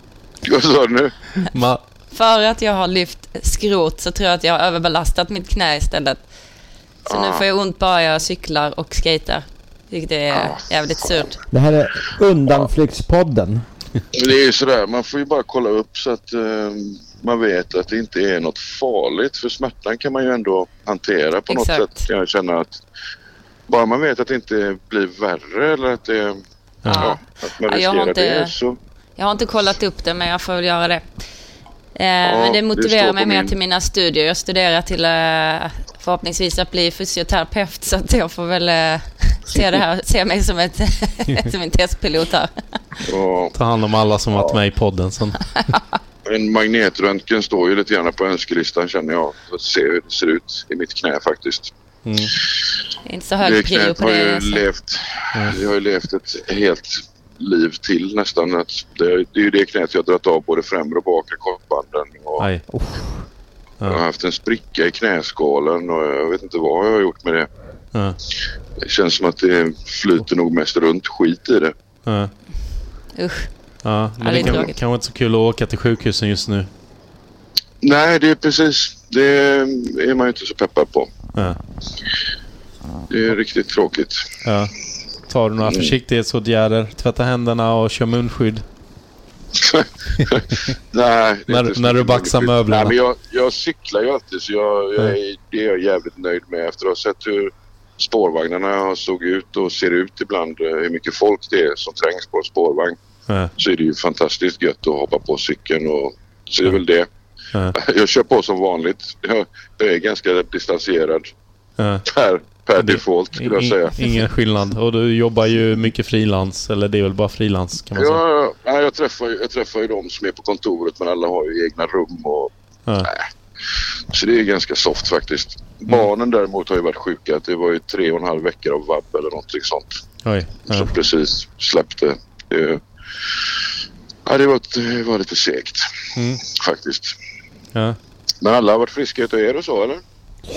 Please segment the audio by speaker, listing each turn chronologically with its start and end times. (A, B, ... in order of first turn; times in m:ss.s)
0:00.4-0:01.2 A
0:01.5-0:01.8 B
0:02.1-0:06.2 C
0:07.1-0:07.5 A
0:07.1-0:11.4 C
0:10.3-0:11.3 A
0:11.5-0:13.6 D
0:14.1-0:22.8 A
0:21.5-0:22.1 C
0:23.7-0:28.8 A
0:26.8-0:27.1 B
0:26.9-0:28.5 C
0:29.2-0:31.0 C
0:32.0-0:42.5 C
0:32.2-0:33.6 A
0:43.0-0:43.5 A
0:43.5-0:45.4 B
0:44.3-0:44.6 A
0:46.2-0:51.7 A
0:52.1-0:52.3 B
0:53.1-0:54.6 C
0:53.4-1:02.5 A
1:02.7-1:03.2 D
1:03.8-1:07.5 A
1:08.8-1:11.7 A
1:12.1-1:12.3 B
1:13.2-1:13.5 C
1:13.8-1:16.7 B
1:14.2-1:14.7 C
1:17.8-1:21.2 A
1:23.1-1:24.2 A
1:24.4-1:24.7 B
1:25.3-1:28.6 B
1:25.6-1:26.0 A
1:29.5-1:43.0 A
1:31.5-1:32.9 B
1:43.6-1:47.1 A
1:47.7-1:51.3 A
1:51.8-1:52.1 B
1:52.1-1:54.0 A
1:52.8-1:58.2 B
1:57.9-2:03.3 A
2:04.1-2:10.0 A
2:10.2-2:10.9 B
2:10.7-2:12.8 A
2:14.2-2:15.8 A
2:16.2-2:16.4 B
2:16.4-2:17.1 A
2:18.4-2:20.0 A